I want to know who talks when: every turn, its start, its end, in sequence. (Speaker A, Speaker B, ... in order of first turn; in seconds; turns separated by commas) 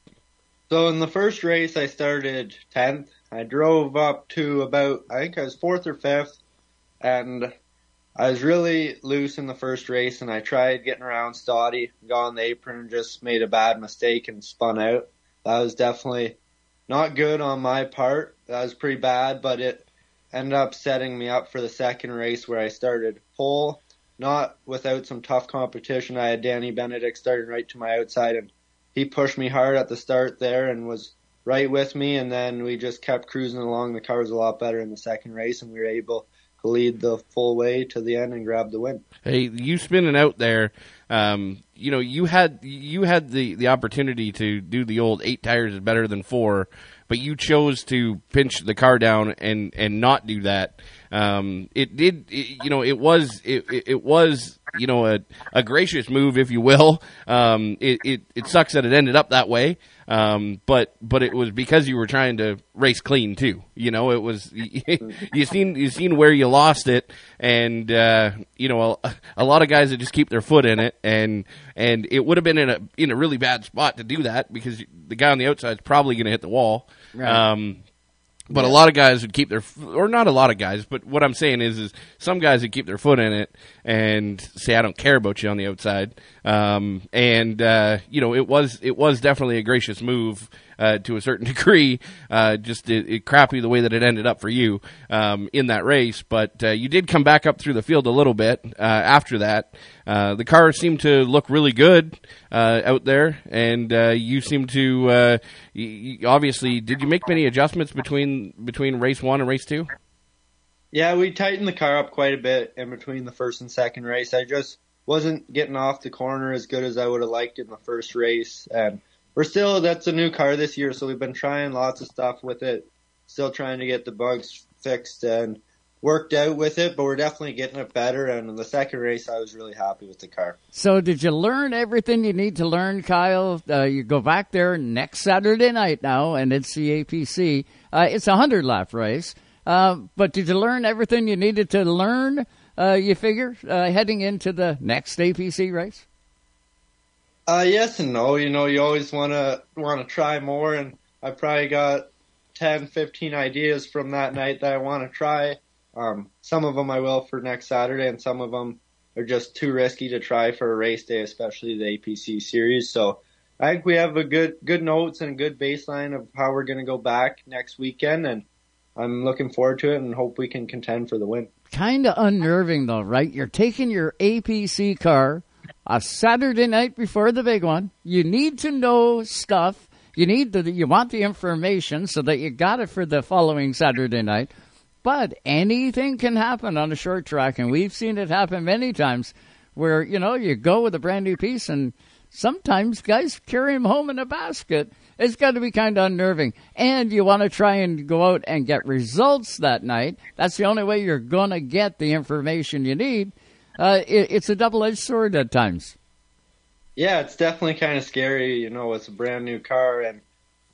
Speaker A: 0.7-6.3, Speaker A: 7.0-7.5, Speaker A: 8.2-16.4, Speaker A: 16.9-39.0, Speaker B: 39.2-77.8, Speaker C: 77.1-77.4, Speaker B: 78.5-109.9, Speaker A: 110.9-130.6, Speaker C: 130.7-146.0, Speaker A: 147.5-168.4, Speaker A: 168.9-171.5, Speaker C: 171.7-184.5, Speaker C: 185.0-205.9, Speaker A: 207.0-210.2